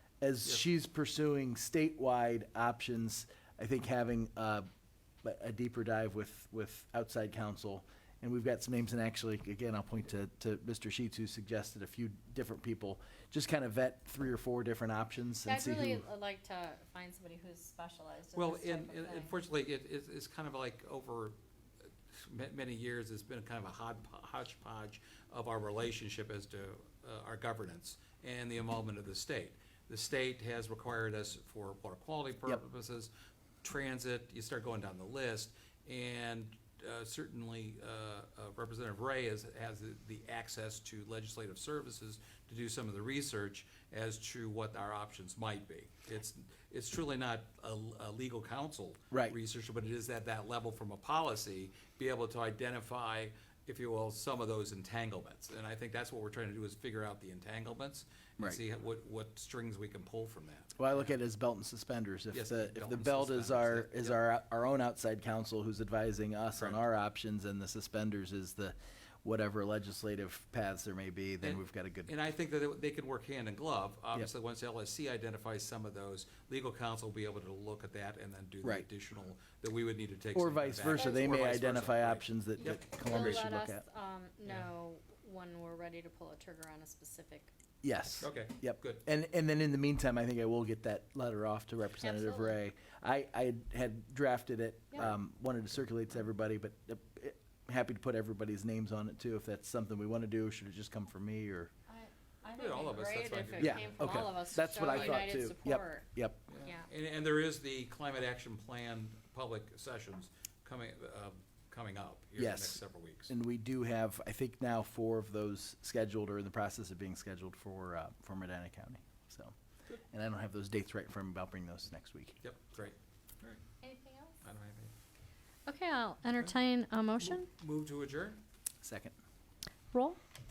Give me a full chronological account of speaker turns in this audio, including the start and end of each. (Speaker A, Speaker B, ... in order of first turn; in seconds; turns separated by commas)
Speaker A: 0.2-4.7, Speaker A: 5.2-16.1, Speaker B: 15.4-19.3, Speaker C: 18.3-21.3, Speaker C: 22.1-33.1, Speaker C: 33.6-61.1, Speaker A: 49.1-49.4, Speaker A: 60.8-72.1, Speaker C: 62.3-64.2, Speaker C: 71.4-83.1, Speaker A: 80.3-83.8, Speaker B: 80.9-81.3, Speaker B: 82.6-87.5, Speaker A: 87.8-101.7, Speaker C: 88.2-89.0, Speaker B: 92.0-92.6, Speaker B: 101.9-106.1, Speaker C: 102.5-105.4, Speaker A: 103.6-106.4, Speaker C: 106.5-113.3, Speaker B: 106.6-106.9, Speaker A: 112.4-119.5, Speaker A: 120.1-122.4, Speaker C: 122.4-123.6, Speaker B: 123.8-124.4, Speaker C: 124.4-124.9, Speaker B: 125.7-127.5, Speaker C: 127.2-128.4, Speaker A: 128.8-129.2, Speaker B: 129.9-130.2